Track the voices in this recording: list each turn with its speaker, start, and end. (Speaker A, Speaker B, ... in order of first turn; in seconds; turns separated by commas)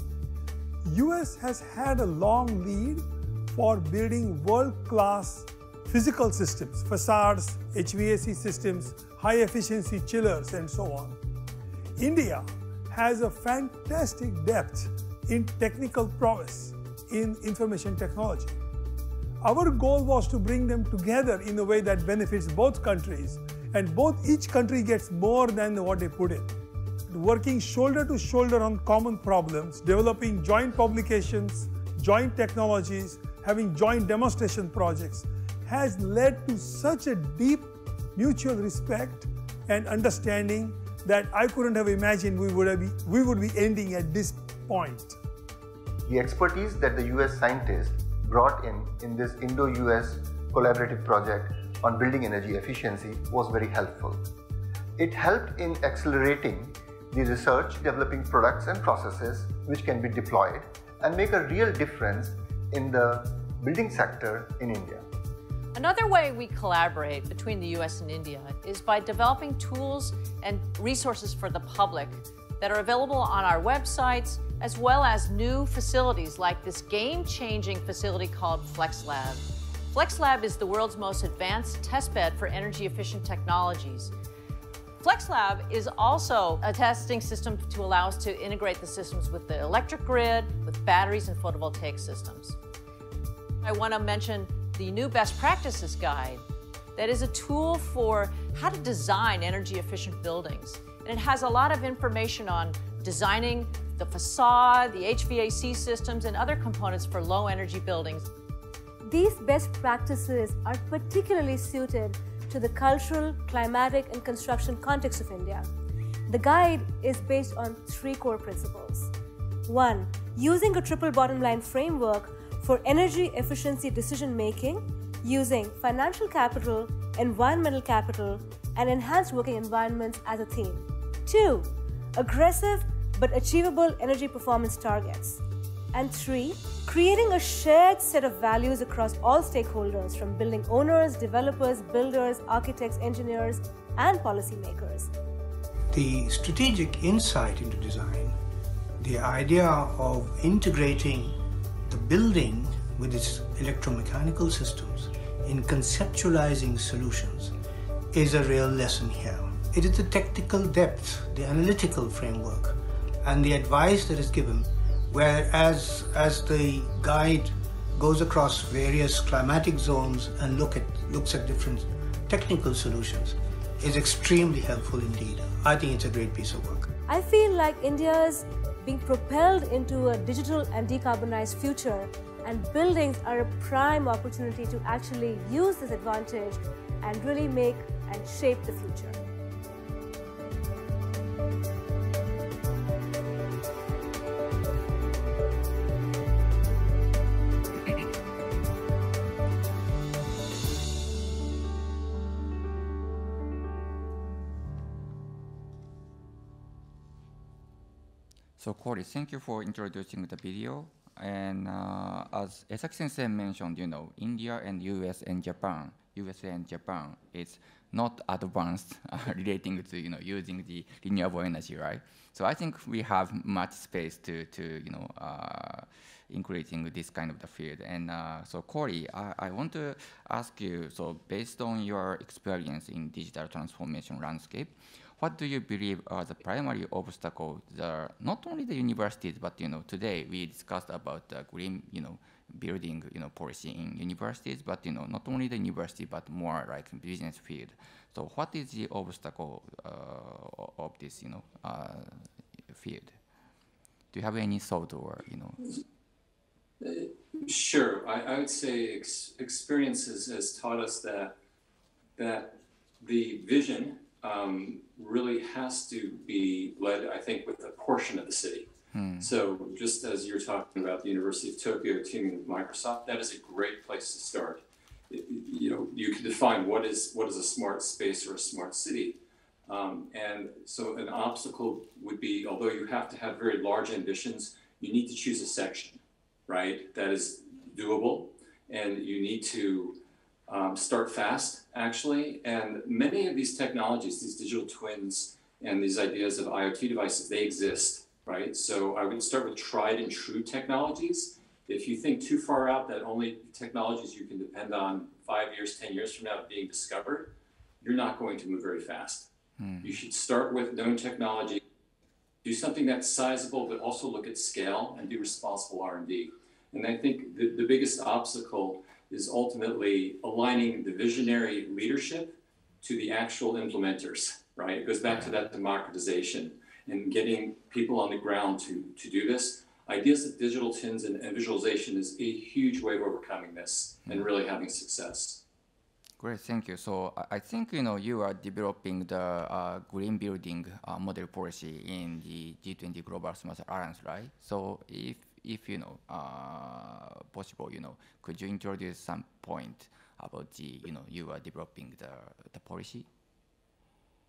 Speaker A: 0.8-11.2, Speaker A: 12.0-18.6, Speaker A: 19.4-26.5, Speaker A: 27.1-45.2, Speaker B: 46.0-54.3, Speaker B: 55.0-65.0, Speaker C: 65.7-84.1, Speaker C: 85.0-92.6, Speaker C: 93.6-96.4, Speaker C: 97.0-108.3, Speaker D: 109.0-115.7, Speaker D: 116.3-119.1, Speaker D: 119.7-135.4, Speaker D: 135.9-145.1, Speaker E: 145.9-148.4, Speaker E: 149.0-157.5, Speaker E: 158.1-176.9, Speaker D: 177.1-189.2, Speaker F: 208.6-253.2, Speaker F: 254.1-255.7, Speaker G: 256.8-261.4, Speaker G: 262.2-268.7, Speaker F: 268.9-269.3, Speaker G: 269.2-309.3, Speaker F: 309.6-309.9, Speaker G: 309.8-311.6, Speaker G: 312.4-335.4, Speaker F: 336.2-353.1